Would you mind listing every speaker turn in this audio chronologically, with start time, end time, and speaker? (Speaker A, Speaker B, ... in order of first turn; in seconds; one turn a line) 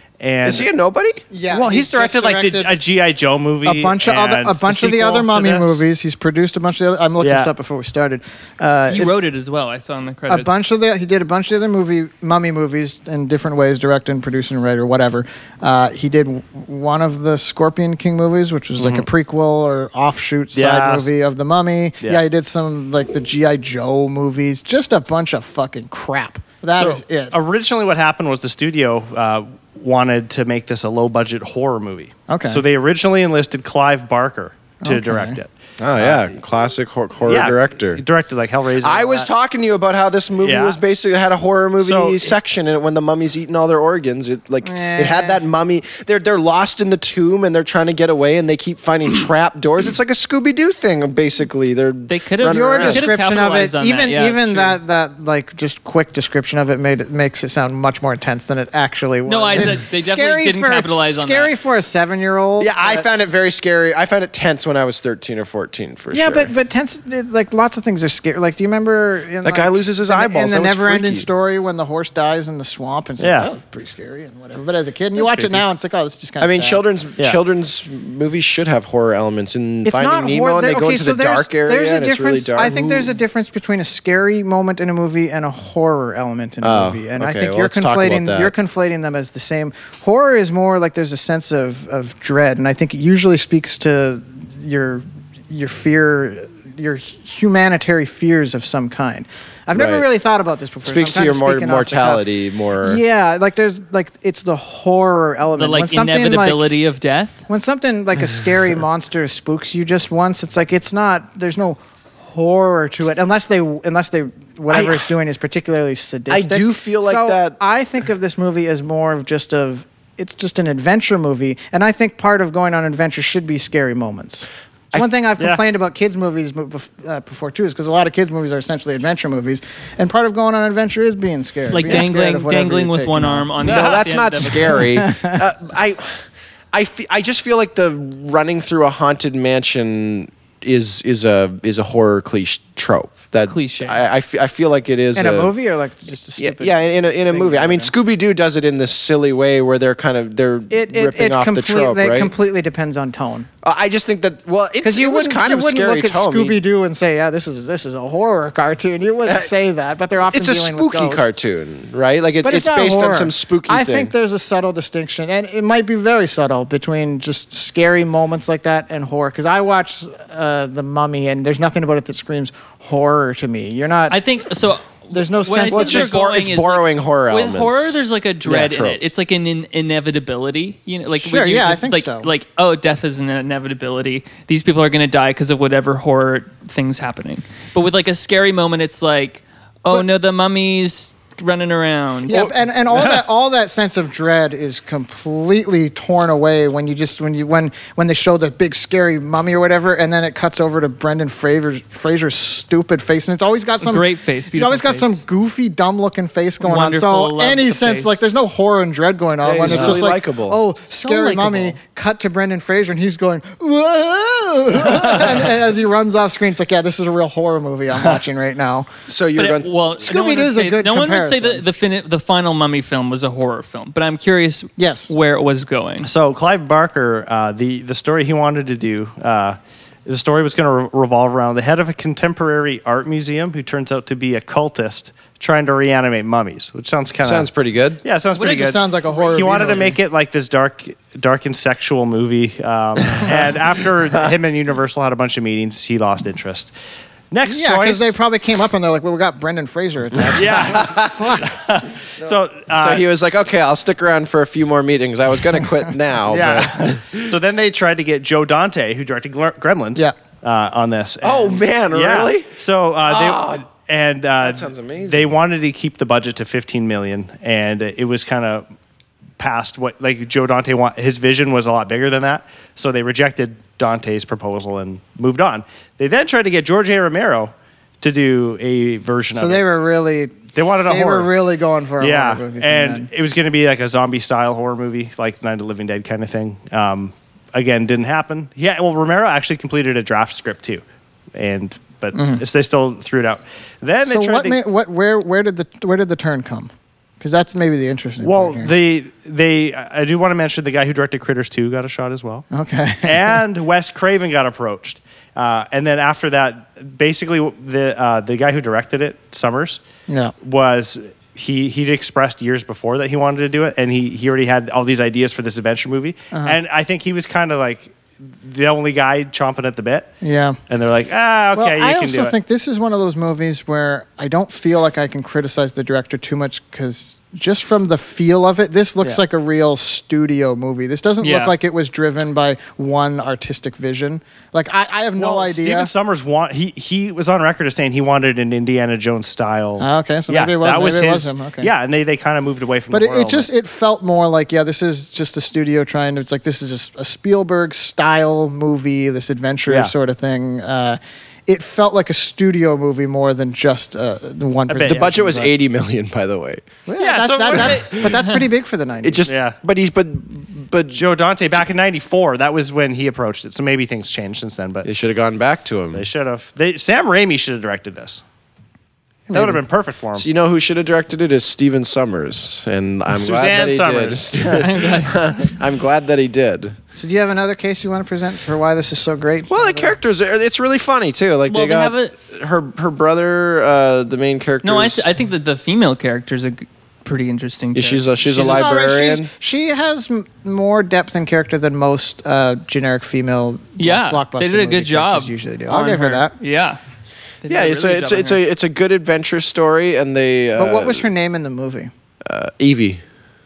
Speaker A: 0.2-0.7
Speaker B: 0.4-1.2
Speaker C: 1.3-2.8
Speaker A: 1.5-5.8
Speaker C: 3.6-9.2
Speaker A: 7.2-7.5
Speaker D: 8.9-10.6
Speaker C: 10.3-27.4
Speaker A: 18.8-19.1
Speaker A: 20.6-21.1
Speaker A: 26.8-36.2
Speaker C: 32.3-32.6
Speaker C: 34.8-35.4
Speaker B: 35.8-38.0
Speaker A: 37.3-39.3
Speaker B: 38.8-53.1
Speaker A: 40.4-40.8
Speaker A: 41.8-42.3
Speaker C: 44.6-45.4
Speaker D: 52.1-54.8
Speaker C: 52.5-63.1
Speaker D: 59.3-61.5
Speaker B: 62.6-66.5
Speaker C: 66.1-76.8
Speaker B: 69.4-71.3
Speaker A: 73.2-73.5
Speaker A: 75.2-75.6
Speaker B: 76.4-83.2
Speaker C: 79.8-102.2
Speaker B: 86.6-88.5
Speaker B: 99.7-100.0
Speaker B: 100.8-103.0
Speaker C: 102.8-106.8
Speaker D: 105.6-107.4
Speaker C: 107.5-133.5
Speaker B: 114.7-115.1
Speaker B: 116.3-117.6
Speaker D: 131.7-134.9
Speaker B: 133.6-145.5
Speaker A: 133.6-134.0
Speaker C: 134.9-135.4
Speaker D: 143.5-144.1
Speaker C: 145.2-147.9
Speaker B: 146.4-152.3
Speaker C: 150.7-153.5
Speaker B: 153.6-156.6
Speaker C: 154.8-161.4
Speaker B: 159.3-159.5
Speaker B: 160.3-164.1
Speaker C: 162.4-174.2
Speaker D: 174.1-192.5
Speaker C: 175.1-176.1
Speaker B: 175.7-179.1
Speaker C: 181.1-182.3
Speaker C: 192.3-218.9
Speaker D: 203.8-205.2
Speaker D: 206.6-208.2
Speaker B: 209.4-210.6
Speaker D: 210.9-211.8
Speaker B: 219.1-219.7
Speaker D: 219.4-226.1
Speaker C: 220.0-221.6
Speaker C: 224.8-225.1
Speaker A: 226.0-237.5
Speaker B: 237.2-238.0
Speaker A: 238.0-246.7
Speaker C: 238.3-240.0
Speaker B: 243.2-243.5
Speaker A: 247.3-248.2
Speaker C: 247.5-251.6
Speaker A: 250.3-253.0
Speaker B: 250.3-251.3
Speaker B: 252.2-257.3
Speaker A: 256.3-268.6
Speaker B: 261.2-262.5
Speaker B: 263.1-263.7
Speaker B: 264.4-265.3
Speaker A: 269.4-279.6
Speaker C: 279.4-283.1
Speaker A: 280.5-281.3
Speaker A: 282.0-290.8
Speaker A: 291.4-294.6
Speaker C: 292.1-292.4
Speaker C: 294.1-298.7
Speaker A: 298.2-302.4
Speaker C: 302.5-303.4
Speaker A: 303.0-309.8
Speaker C: 310.1-310.3
Speaker A: 310.4-320.1
Speaker C: 316.3-316.6
Speaker C: 320.2-320.6
Speaker A: 320.7-322.4
Speaker C: 321.6-335.9
Speaker D: 331.2-331.5
Speaker A: 335.2-343.5
Speaker C: 339.8-341.7
Speaker C: 342.9-355.5
Speaker A: 349.7-349.9
Speaker A: 354.7-355.1
Speaker B: 354.8-356.6
Speaker C: 356.9-359.3
Speaker A: 357.0-358.3
Speaker B: 359.0-361.0
Speaker A: 359.2-359.6
Speaker A: 360.9-364.9
Speaker B: 364.8-366.1
Speaker A: 365.9-368.2
Speaker C: 369.3-369.6
Speaker A: 369.3-370.3
Speaker B: 370.1-376.8
Speaker A: 373.1-374.7
Speaker D: 374.5-375.3
Speaker C: 377.0-379.9
Speaker B: 379.5-385.1
Speaker D: 381.5-382.1
Speaker D: 384.6-388.8
Speaker B: 387.8-389.3
Speaker C: 388.4-396.4
Speaker D: 393.8-396.8
Speaker D: 397.4-398.4
Speaker B: 397.5-401.1
Speaker C: 400.6-401.9
Speaker B: 402.2-403.0